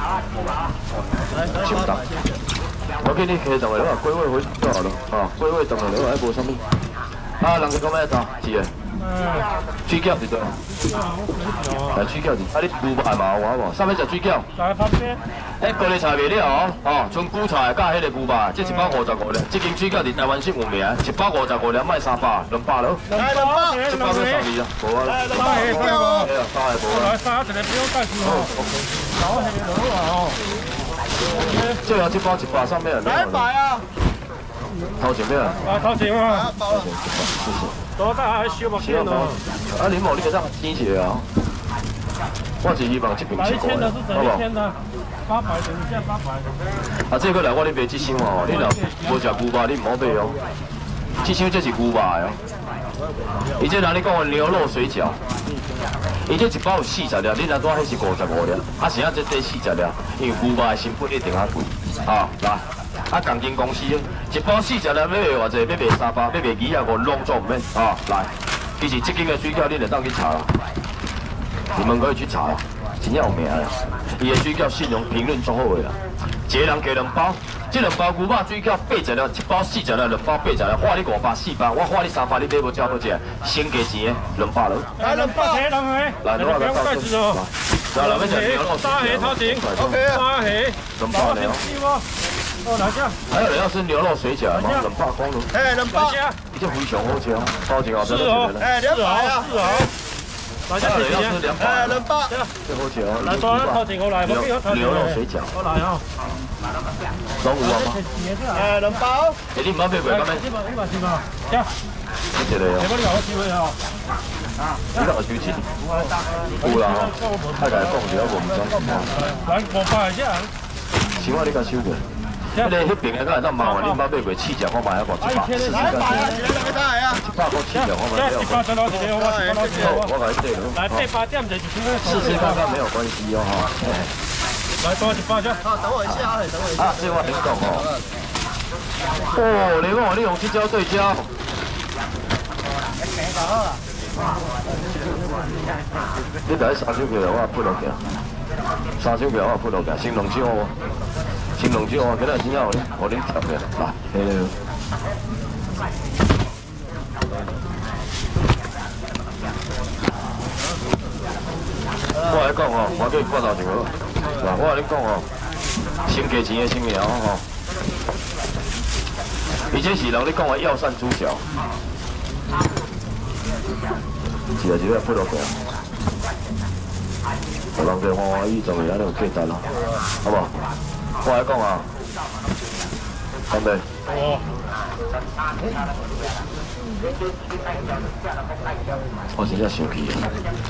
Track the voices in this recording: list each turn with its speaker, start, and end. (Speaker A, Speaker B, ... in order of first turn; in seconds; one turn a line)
Speaker A: 1.3-2.4
Speaker B: 1.5-2.0
Speaker B: 3.0-6.6
Speaker B: 7.4-8.7
Speaker B: 9.8-10.6
Speaker C: 11.2-11.9
Speaker B: 11.9-14.5
Speaker C: 14.6-15.2
Speaker B: 15.6-23.0
Speaker C: 23.1-24.4
Speaker A: 23.1-23.8
Speaker B: 23.9-27.1
Speaker A: 25.1-26.3
Speaker C: 25.6-25.9
Speaker C: 27.0-28.4
Speaker B: 28.2-28.7
Speaker C: 29.3-30.3
Speaker B: 31.8-33.5
Speaker A: 33.0-33.9
Speaker B: 35.0-35.6
Speaker C: 35.7-36.5
Speaker A: 36.2-36.9
Speaker B: 36.6-37.7
Speaker C: 38.0-39.0
Speaker B: 38.7-41.2
Speaker B: 42.6-44.5
Speaker C: 43.6-44.7
Speaker C: 45.4-46.2
Speaker B: 46.9-50.3
Speaker B: 51.2-52.4
Speaker B: 53.6-55.2
Speaker B: 56.2-70.5
Speaker B: 71.7-75.9
Speaker B: 76.5-84.9
Speaker C: 85.0-87.3
Speaker A: 85.0-85.7
Speaker B: 86.2-90.0
Speaker C: 88.0-92.0
Speaker A: 89.8-90.3
Speaker B: 91.0-91.7
Speaker C: 92.7-93.2
Speaker B: 93.3-95.5
Speaker A: 95.5-96.2
Speaker C: 96.0-96.3
Speaker B: 96.5-98.7
Speaker C: 98.0-99.9
Speaker A: 98.6-99.9
Speaker C: 100.7-101.4
Speaker B: 100.8-102.0
Speaker A: 101.6-102.3
Speaker B: 102.6-105.5
Speaker C: 103.4-106.0
Speaker B: 107.4-108.0
Speaker C: 108.1-108.7
Speaker A: 108.5-109.4
Speaker B: 109.5-110.5
Speaker C: 110.4-111.2
Speaker B: 112.3-113.0
Speaker C: 112.9-113.7
Speaker B: 114.9-115.7
Speaker C: 116.6-117.9
Speaker B: 116.6-119.1
Speaker C: 119.2-120.5
Speaker B: 121.2-126.3
Speaker C: 125.3-125.8
Speaker A: 125.7-127.2
Speaker B: 127.1-128.7
Speaker C: 128.2-130.0
Speaker A: 128.9-130.0
Speaker B: 129.7-131.1
Speaker C: 130.8-132.4
Speaker B: 132.0-134.1
Speaker A: 132.1-132.6
Speaker C: 134.8-135.6
Speaker A: 135.6-137.1
Speaker B: 136.1-137.9
Speaker B: 139.3-141.3
Speaker B: 146.5-148.0
Speaker B: 149.0-150.7
Speaker B: 151.6-154.5
Speaker B: 162.2-165.2
Speaker B: 166.1-167.4
Speaker B: 169.7-171.4
Speaker B: 174.6-175.6
Speaker B: 177.8-179.6
Speaker B: 180.2-180.5
Speaker B: 181.2-181.9
Speaker B: 183.5-183.8
Speaker B: 189.3-190.3